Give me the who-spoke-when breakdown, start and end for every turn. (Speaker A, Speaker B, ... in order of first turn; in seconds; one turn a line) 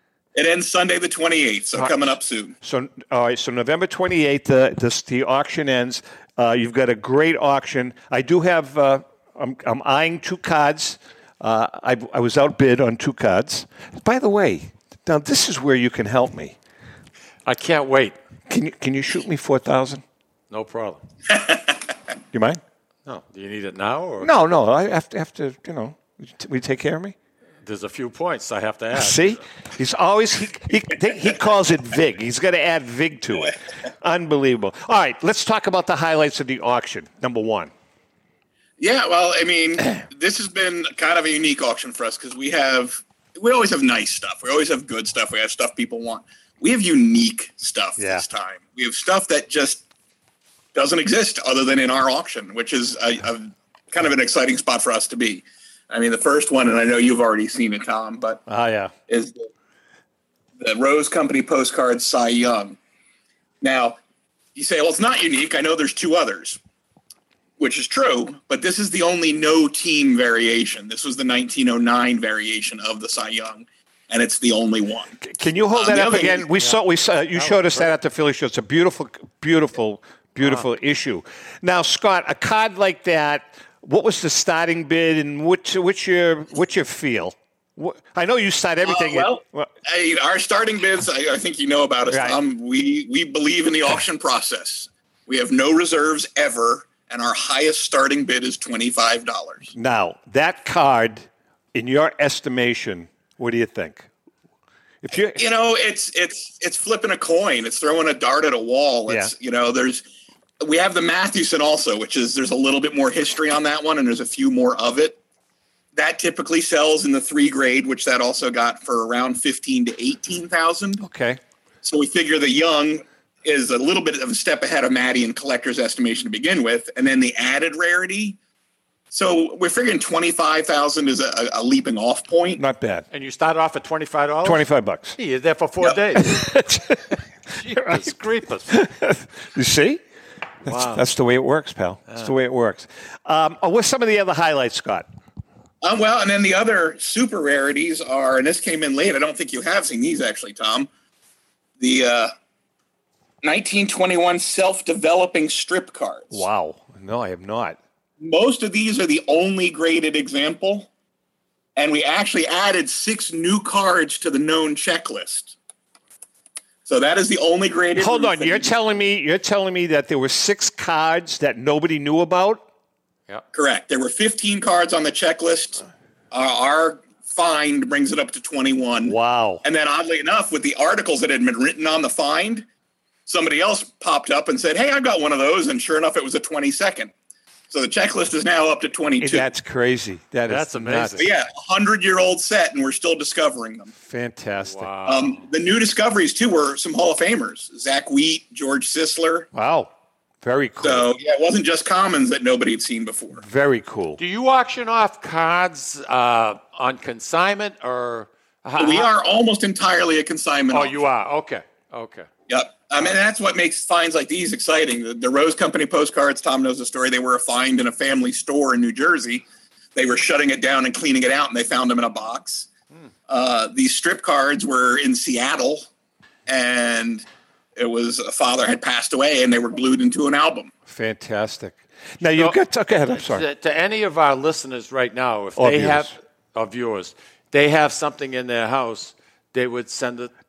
Speaker A: 0.3-2.5
Speaker B: 2.6-16.6
Speaker C: 17.5-18.2
Speaker B: 18.5-20.0
Speaker C: 20.5-21.0
Speaker B: 22.3-22.6
Speaker C: 23.1-24.3
Speaker B: 24.2-27.2
Speaker C: 27.6-29.4
Speaker B: 28.9-37.7
Speaker A: 38.8-49.9
Speaker B: 48.0-48.2
Speaker A: 50.8-58.4
Speaker B: 58.5-58.9
Speaker A: 59.1-59.5
Speaker A: 60.6-62.8
Speaker A: 63.6-64.0
Speaker A: 64.5-66.6
Speaker A: 67.6-75.2
Speaker B: 75.2-89.7
Speaker A: 75.8-76.5
Speaker C: 77.3-77.9
Speaker A: 88.8-99.7
Speaker B: 92.1-92.4
Speaker B: 99.7-104.1
Speaker B: 105.0-105.5
Speaker A: 105.4-110.0
Speaker B: 109.1-109.3
Speaker A: 110.6-115.2
Speaker A: 116.0-121.0
Speaker B: 121.0-121.4
Speaker A: 121.8-128.4
Speaker A: 129.1-132.6
Speaker B: 132.6-133.1
Speaker C: 133.1-134.7
Speaker B: 134.4-135.2
Speaker C: 135.2-136.5
Speaker B: 136.2-137.0
Speaker C: 137.5-138.8
Speaker B: 137.8-138.1
Speaker B: 138.7-140.0
Speaker C: 140.7-141.1
Speaker B: 140.7-145.1
Speaker A: 145.8-150.9
Speaker A: 151.8-152.3
Speaker A: 153.4-156.4
Speaker B: 156.3-157.8
Speaker A: 158.2-160.9
Speaker A: 161.8-165.6
Speaker A: 166.9-168.7
Speaker B: 168.0-172.6
Speaker A: 173.5-182.7
Speaker B: 179.1-179.6
Speaker A: 183.3-187.1
Speaker A: 187.7-189.5
Speaker B: 189.2-191.3
Speaker C: 190.5-191.3
Speaker A: 191.2-193.9
Speaker B: 194.0-194.9
Speaker C: 194.6-195.5
Speaker A: 195.1-199.5
Speaker B: 199.5-199.9
Speaker B: 200.4-201.1
Speaker A: 200.8-203.4
Speaker B: 203.3-204.2
Speaker C: 204.2-209.1
Speaker A: 208.8-211.0
Speaker C: 210.7-212.3
Speaker A: 212.5-222.7
Speaker A: 223.3-225.9
Speaker A: 226.5-230.7
Speaker B: 230.9-233.4
Speaker C: 233.1-240.3
Speaker B: 235.6-236.2